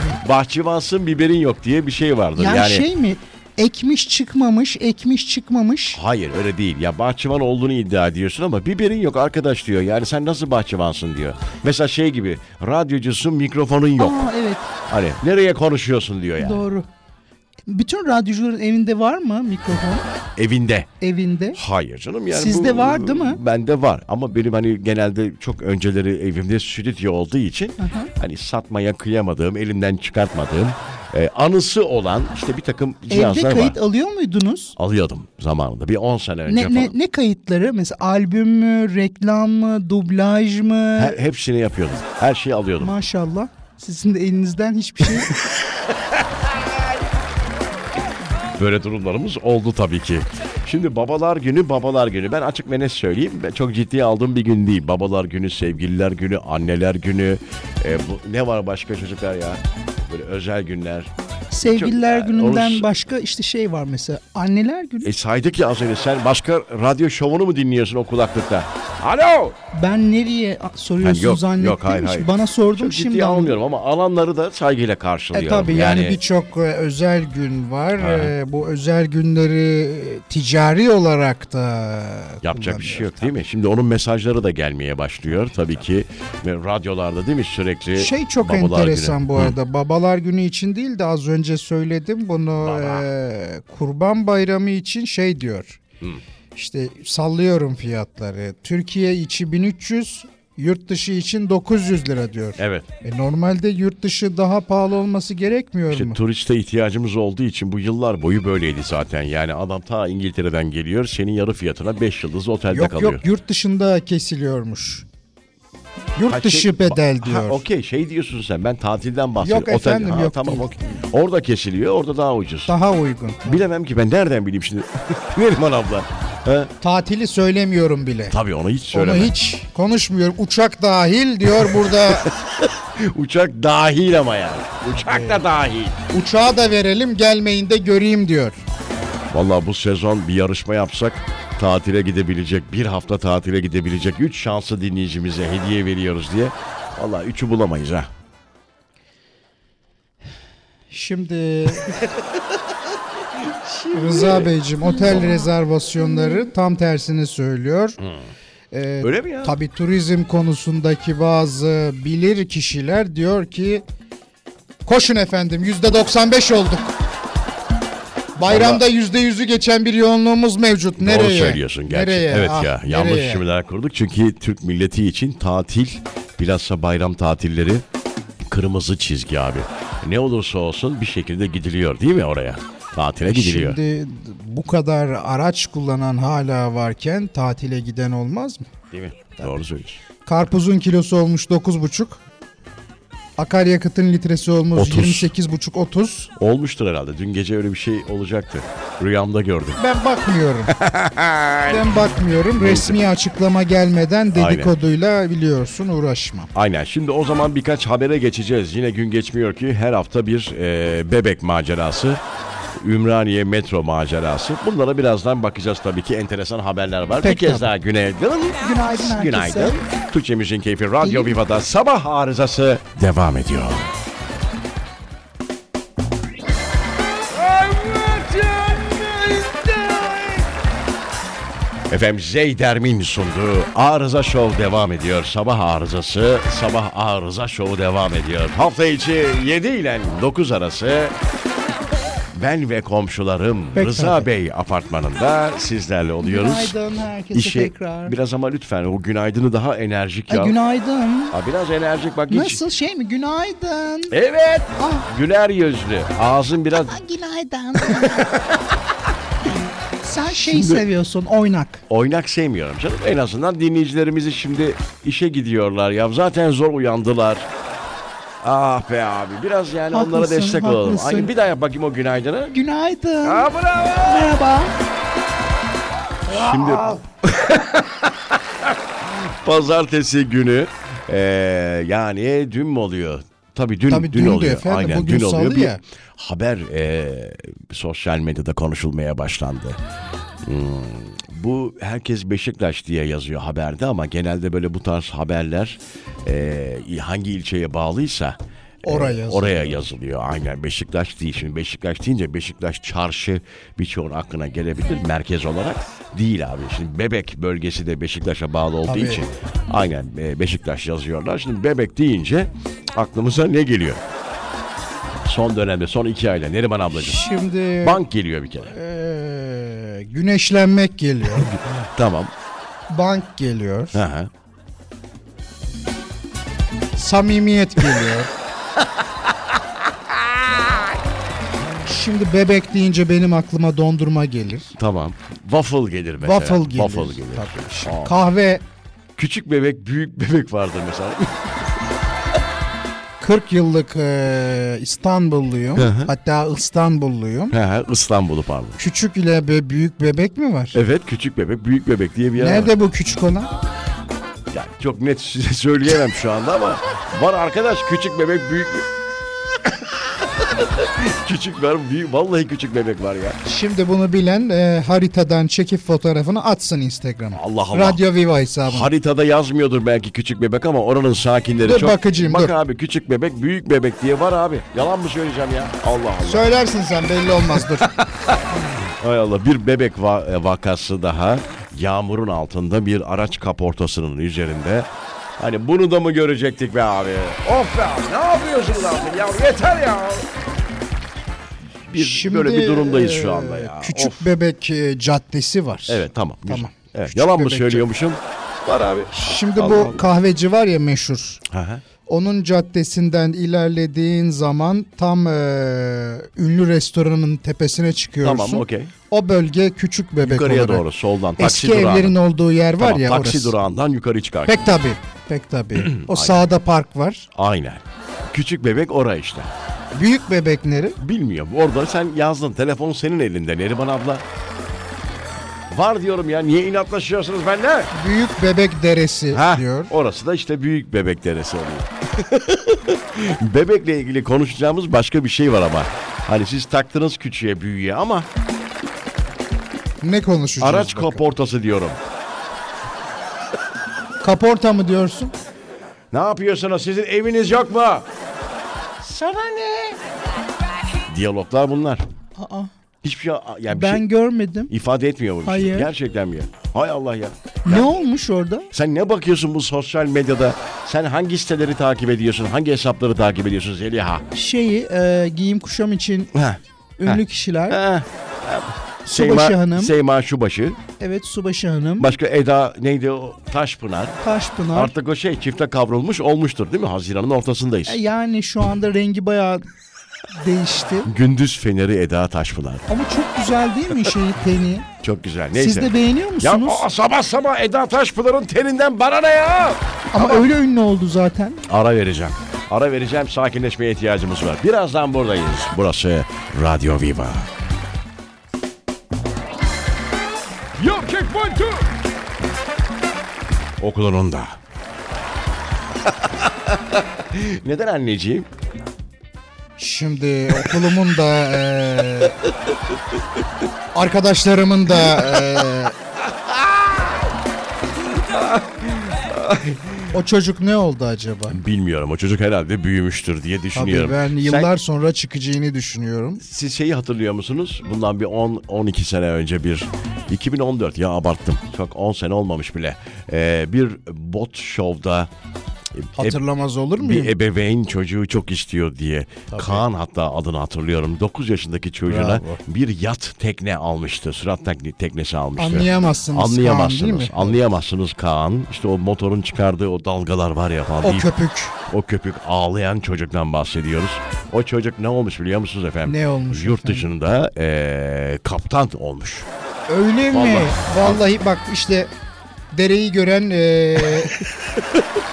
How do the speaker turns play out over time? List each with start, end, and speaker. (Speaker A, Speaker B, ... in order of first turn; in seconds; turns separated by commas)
Speaker A: 0.2-2.9, Speaker B: 2.4-6.0, Speaker A: 5.9-14.3, Speaker B: 14.0-14.7, Speaker A: 14.9-16.6, Speaker B: 16.4-16.8, Speaker B: 17.7-20.1, Speaker A: 20.4-20.9, Speaker B: 21.0-21.6, Speaker A: 21.5-33.8, Speaker B: 22.3-23.4, Speaker B: 27.8-28.1, Speaker B: 33.1-34.7, Speaker A: 34.8-36.9, Speaker B: 36.5-41.1, Speaker A: 41.0-42.9, Speaker B: 42.8-45.3, Speaker A: 48.5-61.1, Speaker B: 61.5-65.1, Speaker A: 61.6-62.9, Speaker A: 65.0-69.6, Speaker B: 69.7-73.5, Speaker A: 71.0-76.2, Speaker C: 75.3-83.3, Speaker A: 78.0-78.3, Speaker A: 82.4-89.5, Speaker C: 88.0-95.8, Speaker A: 92.6-93.0, Speaker C: 96.5-106.2, Speaker A: 102.6-102.9, Speaker A: 105.9-113.2, Speaker C: 112.7-115.0, Speaker C: 116.2-117.6, Speaker A: 116.3-122.7, Speaker C: 119.4-121.0, Speaker C: 122.7-123.6, Speaker A: 123.4-126.7, Speaker C: 126.8-128.3, Speaker A: 128.3-129.3, Speaker C: 128.9-132.3, Speaker A: 132.1-136.0, Speaker C: 135.0-135.4, Speaker C: 136.1-138.6, Speaker A: 139.3-148.1, Speaker C: 150.9-152.0, Speaker A: 151.9-152.3, Speaker A: 153.3-155.3, Speaker C: 153.9-158.0, Speaker C: 158.7-163.8, Speaker A: 159.0-159.5, Speaker C: 164.8-166.9, Speaker C: 168.4-173.4, Speaker A: 168.4-168.8, Speaker A: 171.0-177.8, Speaker A: 178.4-183.8, Speaker C: 183.2-188.7, Speaker A: 188.9-190.0, Speaker C: 190.2-192.2, Speaker C: 193.4-196.3, Speaker A: 194.8-195.3, Speaker A: 196.3-199.8, Speaker C: 199.8-200.7, Speaker A: 200.7-201.9, Speaker C: 201.7-206.5, Speaker A: 202.6-203.0, Speaker A: 204.3-204.7, Speaker A: 206.5-212.2, Speaker A: 212.7-223.9, Speaker C: 217.2-217.7, Speaker B: 218.6-219.8, Speaker B: 221.0-221.3, Speaker A: 227.3-230.5, Speaker A: 231.9-241.1, Speaker A: 242.3-246.8, Speaker B: 246.2-248.1, Speaker A: 247.3-250.6, Speaker B: 250.3-251.3, Speaker A: 251.3-252.6, Speaker B: 252.3-254.1, Speaker A: 254.1-257.0, Speaker B: 256.9-258.2, Speaker A: 257.8-258.6, Speaker B: 260.0-261.8, Speaker A: 260.3-260.8, Speaker A: 261.9-267.5, Speaker A: 268.4-272.5, Speaker B: 269.9-271.3, Speaker B: 272.5-273.5, Speaker A: 273.2-274.4, Speaker B: 274.0-274.7, Speaker A: 276.3-289.8, Speaker C: 283.9-285.8, Speaker A: 290.4-314.0, Speaker C: 298.8-299.9, Speaker C: 308.9-309.2, Speaker A: 315.2-318.7, Speaker C: 317.0-318.0, Speaker C: 318.6-321.5, Speaker A: 321.3-322.3, Speaker C: 322.9-324.0, Speaker A: 323.9-324.3, Speaker C: 326.9-328.3, Speaker A: 330.1-330.6, Speaker C: 331.8-334.7, Speaker A: 334.8-338.2, Speaker C: 336.2-338.6, Speaker A: 339.1-341.6, Speaker C: 343.2-347.5, Speaker A: 345.7-346.1, Speaker A: 347.5-348.8, Speaker C: 348.8-350.8, Speaker A: 350.7-352.7, Speaker C: 352.4-353.5, Speaker A: 354.5-358.9, Speaker A: 359.6-363.4, Speaker C: 363.4-368.9, Speaker A: 367.3-368.0, Speaker A: 368.6-376.6, Speaker C: 371.6-372.5, Speaker C: 376.2-377.9, Speaker A: 378.5-384.9, Speaker A: 385.4-390.3, Speaker A: 391.9-394.3, Speaker C: 391.9-397.9, Speaker A: 395.9-400.1, Speaker C: 399.1-401.4, Speaker A: 401.5-401.8, Speaker C: 402.1-410.8, Speaker A: 408.2-408.9, Speaker A: 410.2-412.2, Speaker C: 411.4-413.5, Speaker A: 412.8-414.7, Speaker C: 414.4-417.3, Speaker A: 415.7-416.4, Speaker A: 417.3-419.5, Speaker C: 419.9-421.0, Speaker A: 421.0-424.2, Speaker A: 425.7-427.9, Speaker C: 427.9-429.9, Speaker A: 429.3-438.3, Speaker C: 440.0-441.2, Speaker A: 440.6-442.0, Speaker C: 444.2-445.3, Speaker A: 446.1-448.1, Speaker A: 449.0-449.8, Speaker A: 451.1-452.0, Speaker B: 452.4-452.7, Speaker A: 453.0-454.1, Speaker B: 453.7-454.7, Speaker A: 454.7-457.9, Speaker B: 455.4-455.9, Speaker B: 457.7-458.7, Speaker A: 458.7-464.2, Speaker B: 464.3-466.3, Speaker A: 466.3-470.8, Speaker B: 467.0-467.8, Speaker B: 469.1-469.8, Speaker C: 469.2-469.7, Speaker B: 471.0-472.0, Speaker A: 472.0-474.2, Speaker B: 474.2-474.8, Speaker A: 474.7-478.0, Speaker B: 477.9-479.6, Speaker B: 480.4-481.0, Speaker A: 481.0-482.9, Speaker B: 482.9-484.8, Speaker C: 483.9-484.3, Speaker A: 485.0-490.5, Speaker B: 485.7-486.6, Speaker C: 485.9-486.4, Speaker C: 490.2-490.5, Speaker B: 490.2-491.6, Speaker A: 491.6-497.5, Speaker A: 500.8-501.9, Speaker A: 503.8-504.6, Speaker A: 506.1-508.5, Speaker C: 509.8-512.4, Speaker C: 513.9-515.9, Speaker A: 516.3-517.2, Speaker A: 518.0-520.1, Speaker C: 520.1-521.6, Speaker A: 521.5-524.7, Speaker C: 523.7-526.4, Speaker A: 526.4-535.3, Speaker A: 535.9-536.4, Speaker C: 536.2-537.3, Speaker A: 537.0-551.3, Speaker C: 539.5-539.8, Speaker C: 542.0-542.6, Speaker C: 545.6-547.6, Speaker C: 551.0-551.7, Speaker A: 551.9-559.5, Speaker C: 556.0-557.1, Speaker C: 559.9-562.1, Speaker A: 560.3-561.2, Speaker C: 562.7-564.4